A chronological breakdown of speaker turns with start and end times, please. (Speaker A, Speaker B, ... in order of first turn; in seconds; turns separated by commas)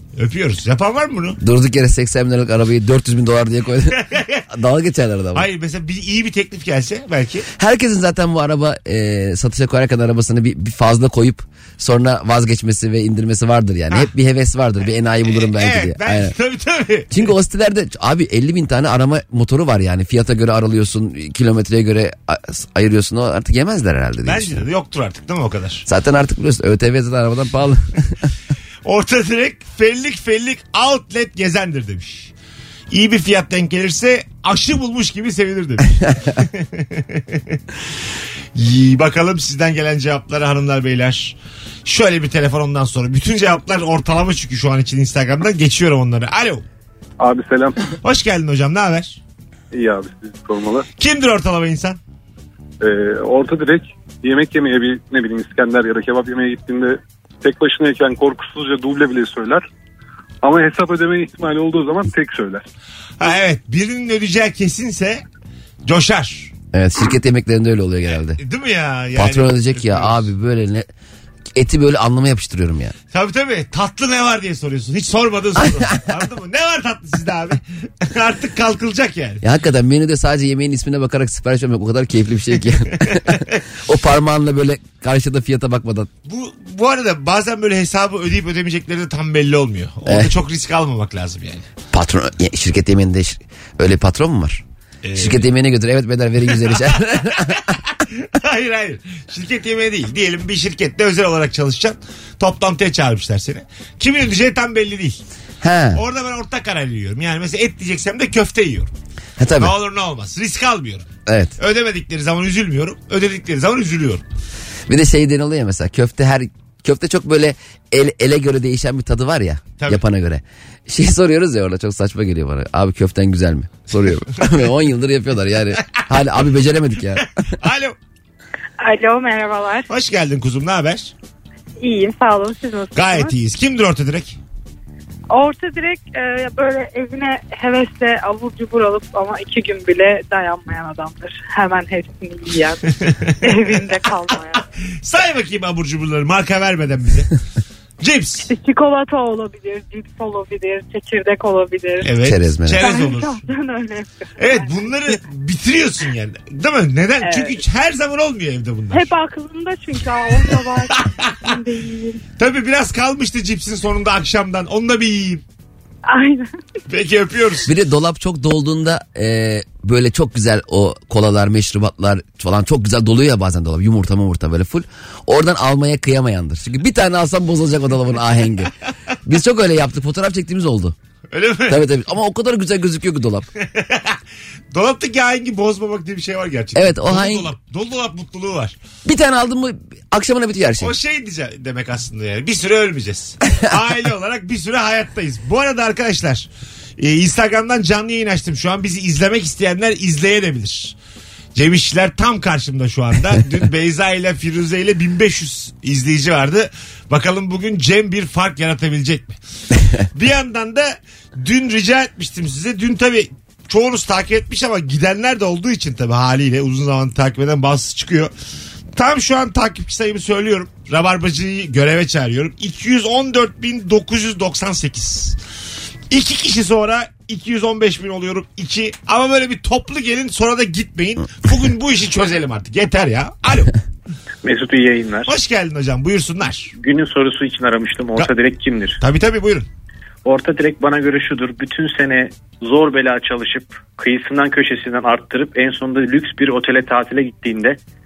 Speaker A: 0.1-1.4, Speaker B: 1.4-5.5, Speaker A: 4.0-4.4, Speaker A: 5.3-7.5, Speaker B: 7.6-16.3, Speaker A: 15.2-17.3, Speaker B: 17.1-24.6, Speaker A: 24.2-25.9, Speaker B: 25.9-28.1, Speaker A: 28.9-32.3, Speaker A: 32.9-37.6, Speaker A: 38.5-46.6, Speaker C: 47.2-47.8, Speaker A: 48.0-49.2, Speaker C: 49.7-50.9, Speaker A: 51.0-52.0, Speaker C: 52.8-59.6, Speaker C: 60.4-62.6, Speaker A: 63.2-65.2, Speaker A: 65.8-66.5, Speaker B: 66.7-68.4, Speaker A: 68.4-70.3, Speaker B: 69.2-70.9, Speaker B: 71.5-72.9, Speaker A: 73.1-79.4, Speaker B: 79.4-86.1, Speaker A: 83.1-83.6, Speaker A: 86.2-91.7, Speaker B: 90.1-90.3, Speaker B: 91.9-94.6, Speaker A: 95.0-95.5, Speaker B: 95.2-97.7, Speaker A: 96.6-105.2, Speaker B: 105.6-106.0, Speaker A: 105.9-108.9, Speaker B: 109.4-109.7, Speaker A: 109.6-111.1, Speaker B: 111.3-111.5, Speaker A: 111.6-114.2, Speaker B: 114.9-127.3, Speaker A: 119.8-120.0, Speaker A: 127.5-128.0, Speaker D: 128.8-129.9, Speaker A: 129.9-131.1, Speaker D: 131.8-133.3, Speaker A: 132.9-134.4, Speaker D: 135.3-142.8, Speaker A: 142.9-143.8, Speaker D: 143.4-144.6, Speaker A: 145.0-147.3, Speaker A: 148.0-148.5, Speaker D: 148.4-152.1, Speaker A: 152.0-153.4, Speaker B: 152.2-152.9, Speaker D: 152.8-155.1, Speaker A: 154.4-159.1, Speaker D: 157.2-157.6, Speaker D: 158.9-162.2, Speaker A: 160.9-161.3, Speaker A: 162.4-165.4, Speaker D: 166.1-166.5, Speaker A: 166.9-167.7, Speaker B: 167.7-178.7, Speaker B: 179.2-180.9, Speaker A: 181.3-181.8, Speaker B: 181.7-183.5, Speaker A: 183.6-184.2, Speaker A: 184.7-188.8, Speaker B: 186.8-187.5, Speaker B: 189.1-190.9, Speaker A: 190.8-200.9, Speaker A: 201.6-209.4, Speaker A: 210.1-218.3, Speaker A: 218.9-225.4, Speaker A: 226.1-233.7, Speaker E: 234.4-235.3, Speaker A: 235.3-236.7, Speaker E: 236.8-239.0, Speaker A: 239.0-239.7, Speaker E: 240.2-247.8